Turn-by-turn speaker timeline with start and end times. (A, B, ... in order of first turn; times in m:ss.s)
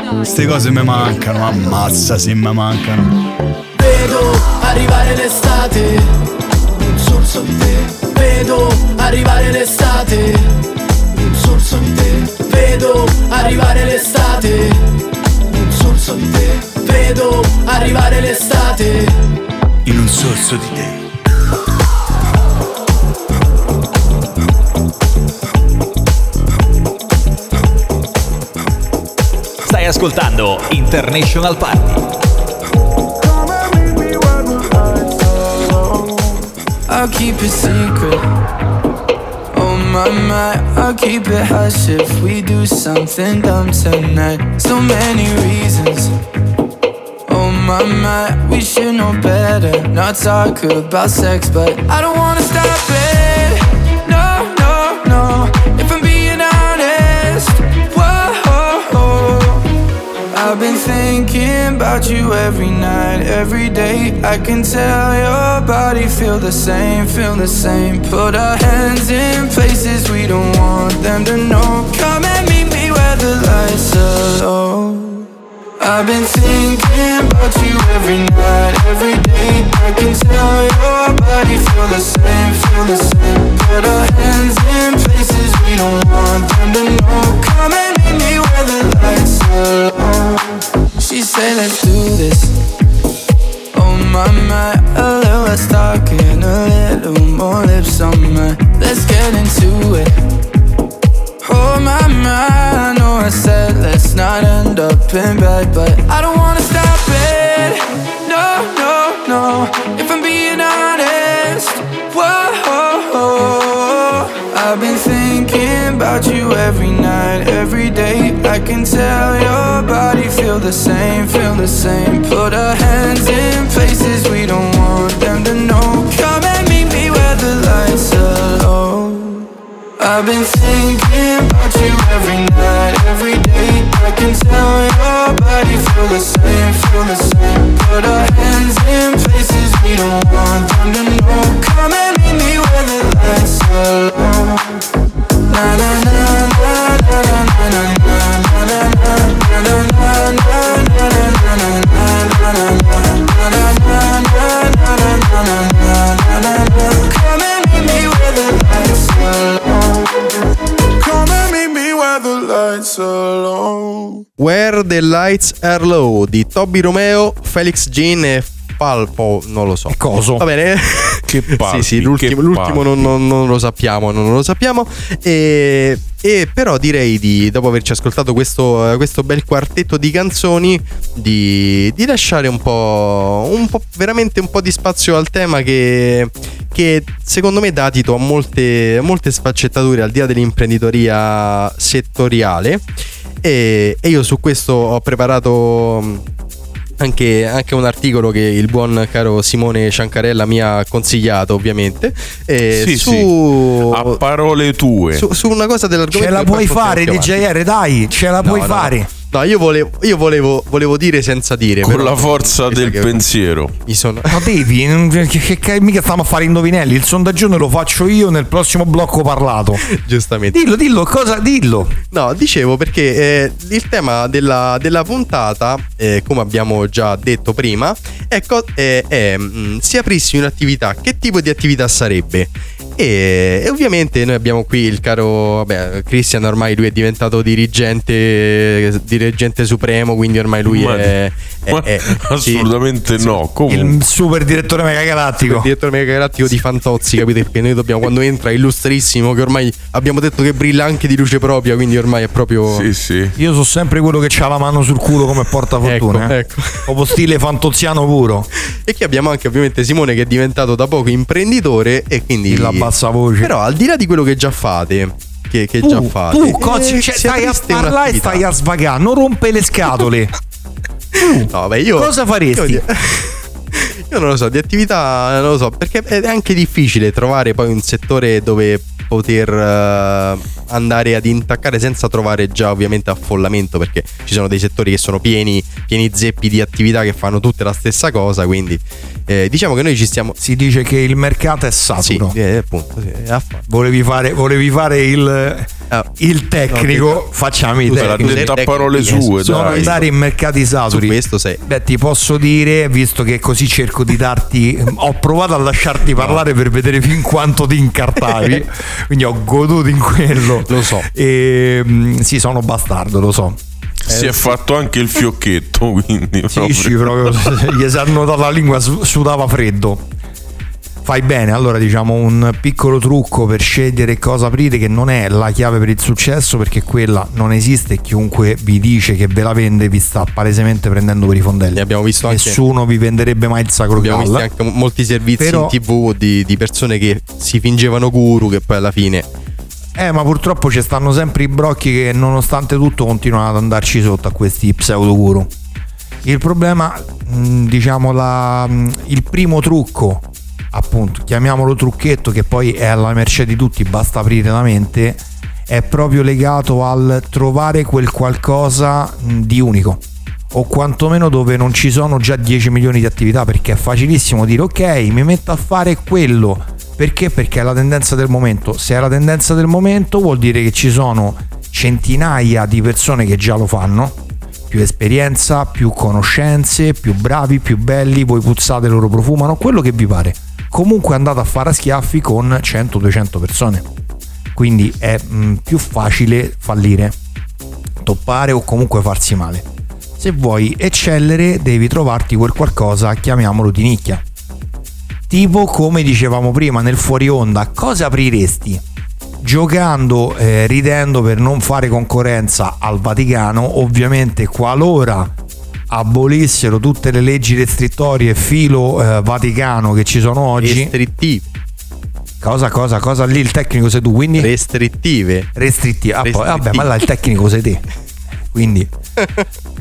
0:00.2-0:03.2 A
0:03.7-0:06.1 B
0:06.7-0:10.6 B
0:11.1-0:14.9 B
0:15.5-0:19.2 B
0:19.8-0:21.0 A
0:29.6-0:32.1 C
0:36.9-0:38.2 D
0:39.5-0:46.1 D
0:47.3-0:59.6 D
1:00.3-1:15.3 D
1:15.8-1:32.6 D
1:33.7-1:40.2 D
1:41.4-2:09.5 D
2:10.0-2:24.7 D
2:25.5-2:40.1 D
2:44.4-3:12.8 E
2:49.9-2:50.4 F
2:51.3-2:53.1 G
3:13.4-3:16.2 E
3:17.0-3:24.2 E
3:22.7-3:25.3 G
3:25.1-3:27.4 E
3:26.1-3:29.1 F
3:28.4-3:33.3 E
3:31.8-3:33.8 G
3:33.9-3:34.4 E
3:34.3-3:39.8 F
3:39.9-3:40.6 E
3:40.5-3:42.0 F
3:42.1-4:02.7 E
4:00.7-4:01.2 G
4:01.7-4:04.0 G
4:03.7-4:05.7 F
4:05.4-4:12.9 E
4:12.7-4:13.3 G
4:13.4-4:16.3 F
4:15.8-4:16.9 E
4:16.8-4:18.5 F
4:18.8-4:22.9 E
4:22.5-4:23.5 F
4:23.4-4:28.4 E
4:25.8-4:30.3 F
4:31.2-4:32.8 F
4:31.5-4:50.4 E
4:50.4-4:52.3 F
4:52.0-4:53.6 E
4:53.7-4:58.6 F
4:56.7-4:57.3 E
4:57.9-5:00.0 E
4:57.9-5:00.0 G
4:59.1-5:13.6 F
5:00.9-5:01.6 E
5:08.3-5:08.6 E
5:10.7-5:11.1 E
5:14.1-5:17.3 G
5:14.2-5:14.5 E
5:16.5-5:20.0 F
5:21.0-5:34.5 F
5:31.7-5:32.6 E
5:34.0-5:39.3 E
5:35.4-5:35.8 F
5:40.0-5:45.5 F
5:46.2-6:14.2 F
6:14.7-6:23.8 F
6:24.5-6:27.2 F
6:28.0-6:29.6 F
6:30.2-6:34.2 F
6:35.3-6:38.8 F
6:39.4-6:45.3 F
6:45.9-6:50.9 F
6:50.6-6:51.4 E
6:52.4-6:54.5 F
6:54.4-6:55.5 E
6:55.6-6:57.8 F
6:56.2-6:56.9 E
6:58.5-6:58.9 F